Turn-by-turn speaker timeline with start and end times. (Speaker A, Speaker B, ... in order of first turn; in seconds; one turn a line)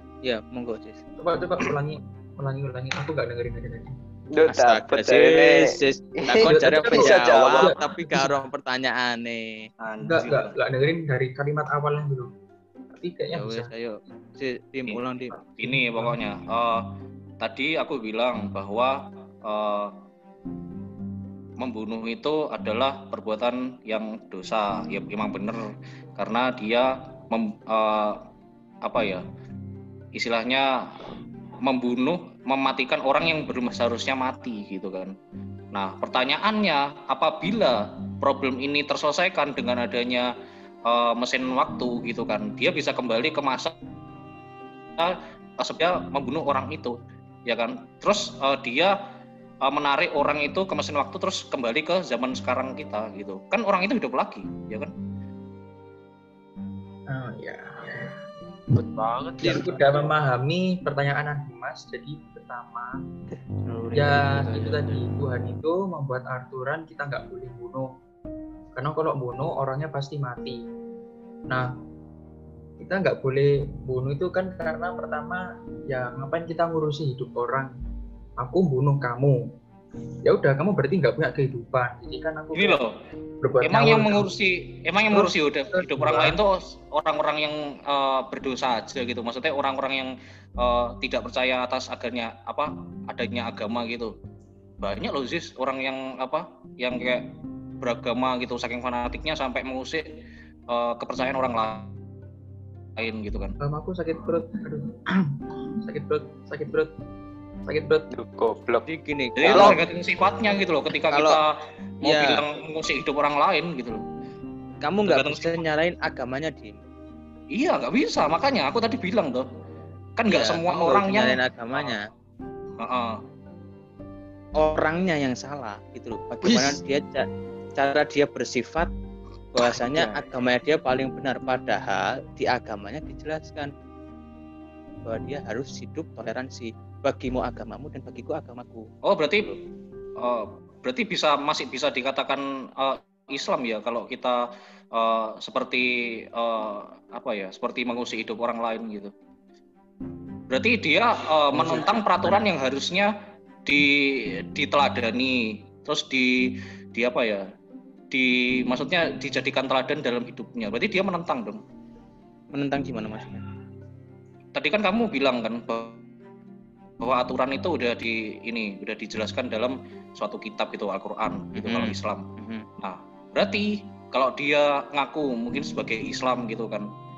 Speaker A: 0.2-1.0
Speaker B: 1.2-3.9
Speaker C: 4.3-7.7
Speaker A: 4.5-9.7
Speaker B: 6.4-8.3
Speaker D: 9.8-10.5
Speaker B: 10.0-12.3
Speaker B: 13.0-13.7
Speaker A: 13.3-15.3
Speaker D: 15.6-16.8
Speaker B: 15.6-16.2
Speaker D: 17.4-19.9
Speaker D: 21.6-25.6
Speaker D: 26.2-28.2
Speaker D: 28.8-29.2
Speaker D: 30.1-30.7
Speaker D: 31.6-35.1
Speaker D: 35.7-40.3
Speaker D: 40.9-43.7
Speaker D: 45.0-48.9
Speaker D: 49.6-54.9
Speaker B: 57.1-58.1
Speaker E: 58.7-60.0
Speaker B: 59.4-63.0
Speaker E: 63.6-65.1
Speaker B: 63.9-67.9
Speaker B: 68.7-70.6
Speaker B: 72.8-77.7
Speaker B: 78.4-79.4
Speaker B: 80.2-82.8
Speaker D: 82.5-82.9
Speaker B: 83.4-84.3
Speaker D: 83.6-94.1
Speaker B: 85.1-86.3
Speaker D: 94.8-97.3
Speaker D: 97.8-100.0
Speaker D: 100.7-101.9
Speaker D: 103.0-103.5
Speaker B: 103.6-106.9
Speaker B: 107.7-108.1
Speaker C: 108.1-108.8
Speaker A: 108.9-109.8
Speaker D: 109.4-111.5
Speaker C: 109.5-109.8
Speaker A: 111.1-111.4
Speaker A: 112.0-112.4
Speaker D: 112.0-114.0
Speaker A: 114.8-116.8
Speaker D: 115.0-115.6
Speaker D: 117.5-119.5
Speaker D: 120.2-122.0
Speaker A: 120.3-122.0
Speaker D: 122.8-123.2
Speaker A: 124.5-128.9
Speaker E: 126.4-126.8
Speaker A: 129.5-133.7
Speaker C: 129.9-130.2
Speaker A: 135.0-138.9
Speaker D: 139.0-139.5
Speaker D: 140.2-144.4
Speaker D: 144.9-149.1
Speaker D: 150.5-153.1
Speaker A: 151.5-152.4
Speaker D: 153.7-153.9
Speaker D: 154.5-157.4
Speaker D: 158.1-161.6
Speaker A: 162.5-163.4
Speaker D: 164.5-166.0
Speaker D: 167.0-172.2
Speaker A: 171.6-172.6
Speaker D: 172.8-176.9